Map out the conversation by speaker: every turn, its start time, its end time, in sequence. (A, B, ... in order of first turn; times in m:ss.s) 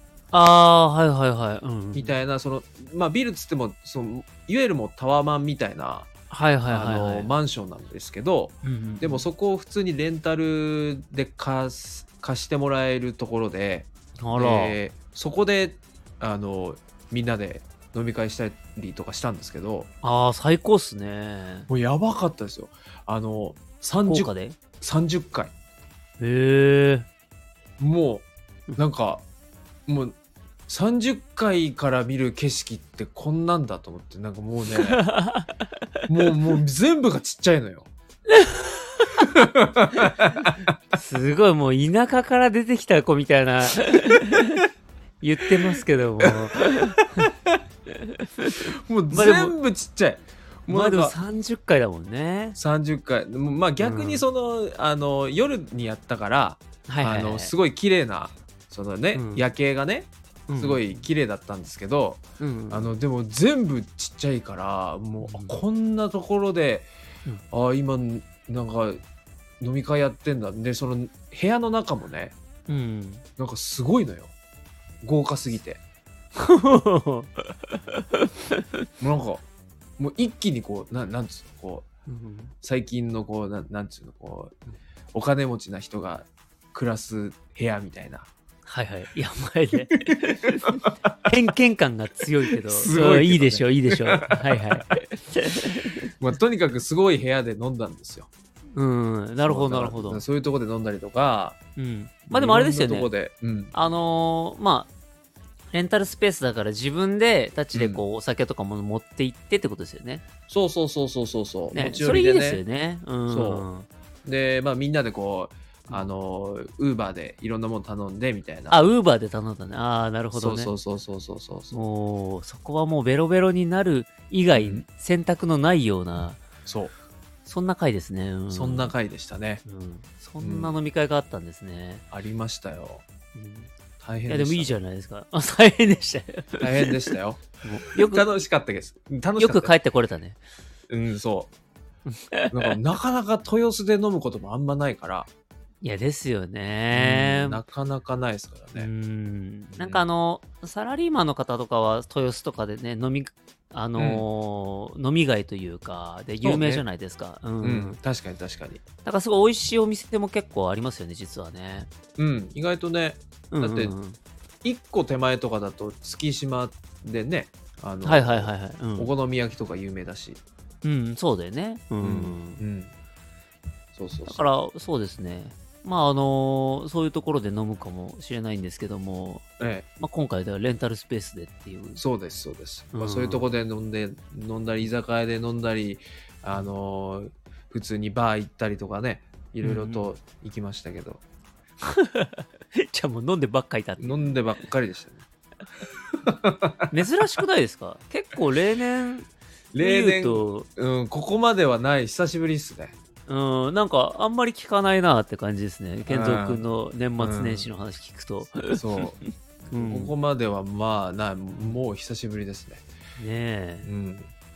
0:00.3-0:02.2 A
0:01.9-0:06.1 B
0:06.3-0:07.3 A
0:06.7-0:19.9 B
0:08.6-0:09.2 A
0:14.2-0:14.8 A
0:20.0-0:21.7 A
0:21.7-0:25.5 B
0:24.0-0:24.6 A
0:26.2-0:27.1 A
0:27.8-0:28.2 B
0:28.8-0:29.2 B
0:29.9-0:30.2 B
0:30.7-0:35.0 B
0:34.8-0:35.7 A
0:36.1-0:37.9 B
0:38.3-0:39.3 A
0:39.2-0:40.7 B
0:40.9-0:44.6 A
0:45.2-0:47.3 A
0:45.7-0:47.6 B
0:48.0-0:49.5 A
0:48.8-0:51.1 B
0:50.7-0:52.6 A
0:52.6-1:06.9 B
0:53.8-0:54.2 A
0:56.9-0:57.5 A
0:59.1-0:59.4 A
1:00.5-1:01.0 A
1:02.4-1:02.9 A
1:05.2-1:05.6 A
1:07.5-1:09.0 B
1:09.6-1:12.3 B
1:12.7-1:13.2 A
1:13.4-1:14.3 B
1:15.0-1:15.8 B
1:16.3-1:18.6 A
1:19.0-1:19.4 B
1:20.0-1:21.9 B
1:22.1-1:22.5 A
1:22.6-1:24.6 B
1:25.1-1:28.3 B
1:28.6-1:36.1 A
1:30.0-1:31.1 B
1:32.5-1:35.0 B
1:36.2-1:38.3 B
1:38.8-1:40.2 A
1:39.4-1:41.6 B
1:41.8-1:43.1 A
1:42.3-1:43.7 B
1:43.7-1:44.9 A
1:45.7-1:50.2 A
1:47.7-1:48.0 B
1:50.5-1:52.6 B
1:51.7-1:53.9 A
1:53.3-1:53.7 B
1:54.2-1:58.8 B
1:58.7-2:00.7 A
2:00.3-2:01.8 B
2:01.7-2:06.4 A
2:04.5-2:04.8 B
2:06.6-2:06.9 B
2:07.4-2:08.9 A
2:08.5-2:09.6 B
2:09.6-2:12.0 A
2:10.4-2:10.7 B
2:12.1-2:13.0 B
2:13.3-2:13.7 A
2:14.0-2:14.8 B
2:14.3-2:17.1 A
2:16.6-2:19.7 B
2:17.6-2:18.3 A
2:19.4-2:20.4 A
2:20.9-2:21.5 B
2:22.1-2:22.8 A
2:22.5-2:25.3 B
2:25.8-2:27.6 A
2:26.9-2:28.9 B
2:28.8-2:38.0 A
2:29.7-2:30.0 B
2:34.0-2:34.2 B
2:36.4-2:36.8 B
2:37.6-2:38.8 B
2:39.0-2:41.9 A
2:42.2-2:43.9 B
2:43.5-2:44.2 A
2:44.6-2:50.4 B
2:48.0-2:49.1 A
2:50.8-2:52.6 A
2:52.0-2:52.9 B
2:53.9-2:54.4 B
2:54.2-2:59.4 A
2:59.6-2:59.8 B
3:00.0-3:02.0 A
3:02.0-3:11.2 B
3:02.9-3:03.5 A
3:09.6-3:10.1 A
3:11.8-3:14.6 A
3:14.0-3:15.2 B
3:16.2-3:16.9 B
3:16.9-3:20.7 A
3:19.7-3:22.9 B
3:23.3-3:29.0 A
3:26.0-3:26.6 B
3:27.2-3:27.7 B
3:28.6-3:29.2 B
3:29.7-3:30.1 A
3:29.7-3:32.8 B
3:33.2-3:33.9 A
3:33.8-3:34.3 B